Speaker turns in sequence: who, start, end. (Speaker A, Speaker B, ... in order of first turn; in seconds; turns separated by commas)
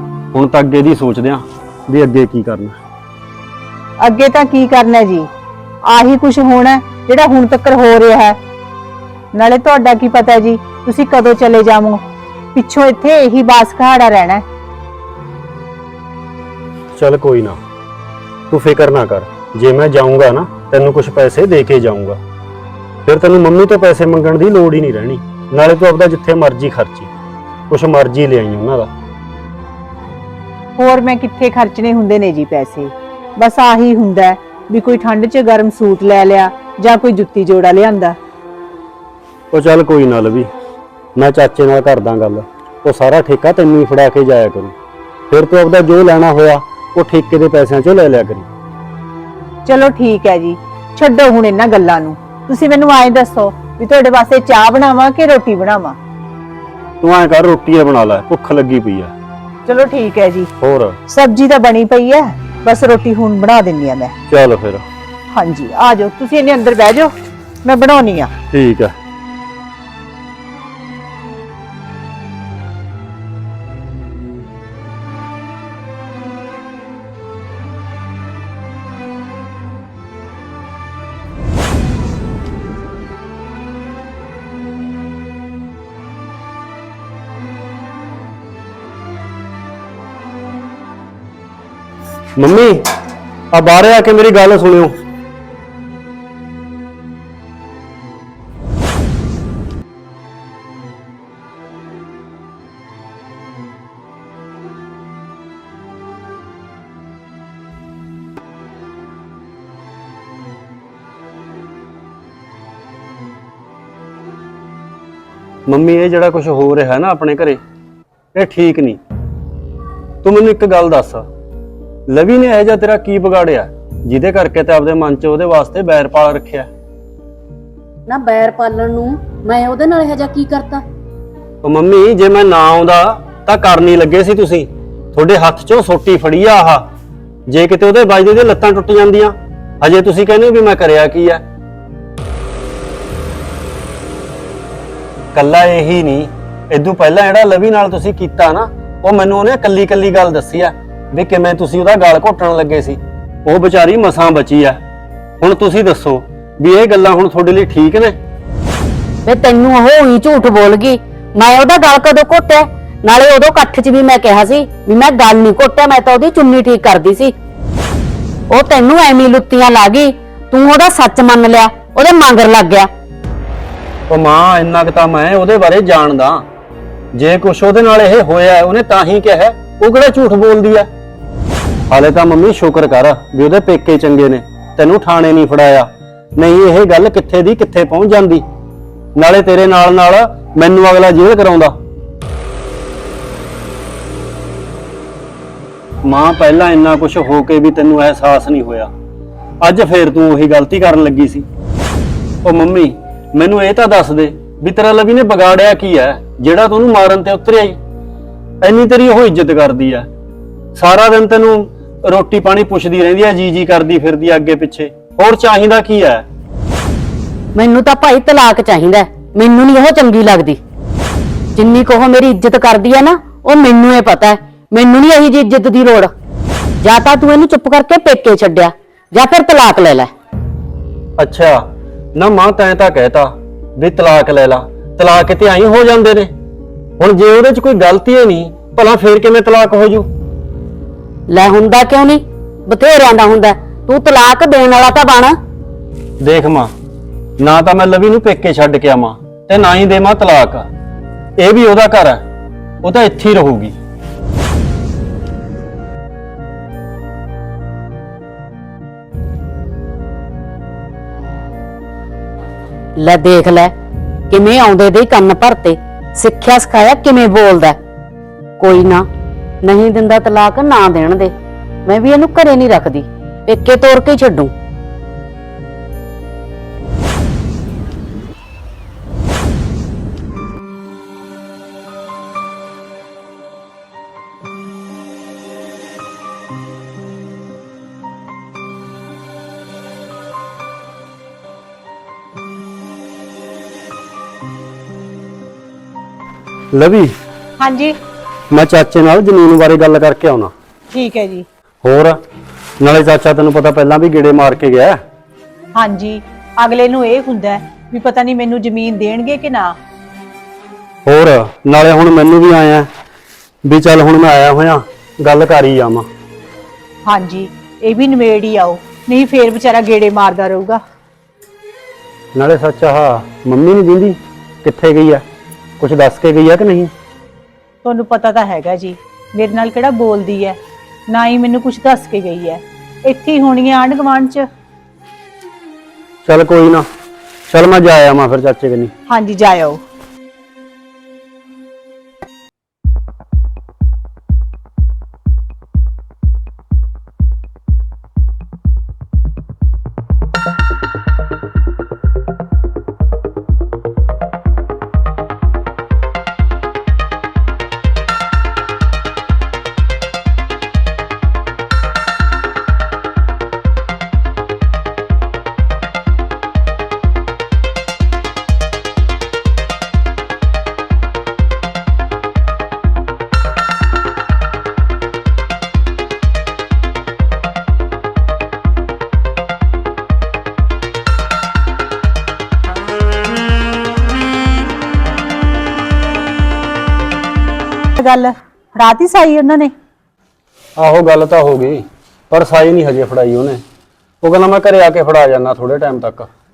Speaker A: 0.3-2.8, Speaker B: 4.0-5.3, Speaker B: 5.8-8.4, Speaker B: 9.3-12.0, Speaker B: 12.5-14.4, Speaker A: 16.9-17.6, Speaker A: 18.5-22.2, Speaker A: 23.1-27.1, Speaker A: 27.7-28.9, Speaker B: 30.8-38.1, Speaker A: 39.5-40.5, Speaker A: 41.1-44.7, Speaker A: 45.3-48.5, Speaker B: 49.6-56.0, Speaker A: 57.0-59.1, Speaker B: 59.7-60.5, Speaker A: 60.6-61.0, Speaker B: 61.1-64.1, Speaker A: 64.3-64.8, Speaker B: 65.3-67.1, Speaker B: 67.6-68.3, Speaker A: 68.5-68.9, Speaker A: 92.4-92.8, Speaker A: 93.5-94.9, Speaker A: 115.7-117.6, Speaker A: 118.3-119.0, Speaker A: 120.2-121.2, Speaker A: 122.1-126.7, Speaker C: 128.1-130.8, Speaker A: 131.6-136.9, Speaker A: 137.5-141.4, Speaker A: 145.3-154.8, Speaker A: 155.4-158.1, Speaker C: 159.2-167.3, Speaker C: 168.5-172.9, Speaker A: 174.1-176.4, Speaker A: 177.1-180.9, Speaker A: 181.9-188.4, Speaker A: 189.2-191.7, Speaker A: 196.0-198.9, Speaker A: 199.6-201.4, Speaker A: 202.4-207.8, Speaker A: 208.6-210.1, Speaker A: 210.7-216.2, Speaker C: 217.5-220.6, Speaker C: 221.6-226.1, Speaker C: 226.8-230.1, Speaker A: 231.2-231.6, Speaker A: 232.1-236.3, Speaker A: 237.0-240.1, Speaker C: 241.3-245.3, Speaker A: 246.2-246.7, Speaker A: 247.4-250.7, Speaker A: 251.4-252.2, Speaker A: 252.8-253.7, Speaker C: 262.9-263.7, Speaker C: 264.3-267.8, Speaker C: 268.6-269.1, Speaker C: 269.6-271.3, Speaker C: 271.9-274.5, Speaker A: 296.7-297.1, Speaker B: 297.6-298.0, Speaker A: 298.5-300.5, Speaker B: 300.9-301.4, Speaker A: 301.8-302.2, Speaker A: 302.8-305.0, Speaker B: 305.8-309.8, Speaker A: 311.1-312.9, Speaker A: 313.6-316.1, Speaker B: 317.1-320.8, Speaker A: 322.3-325.2, Speaker A: 325.8-326.9, Speaker B: 327.8-330.6, Speaker B: 331.1-334.4, Speaker A: 336.2-336.8, Speaker A: 337.5-338.9, Speaker B: 339.1-339.8, Speaker B: 387.9-389.7, Speaker A: 390.8-393.6, Speaker A: 394.2-396.3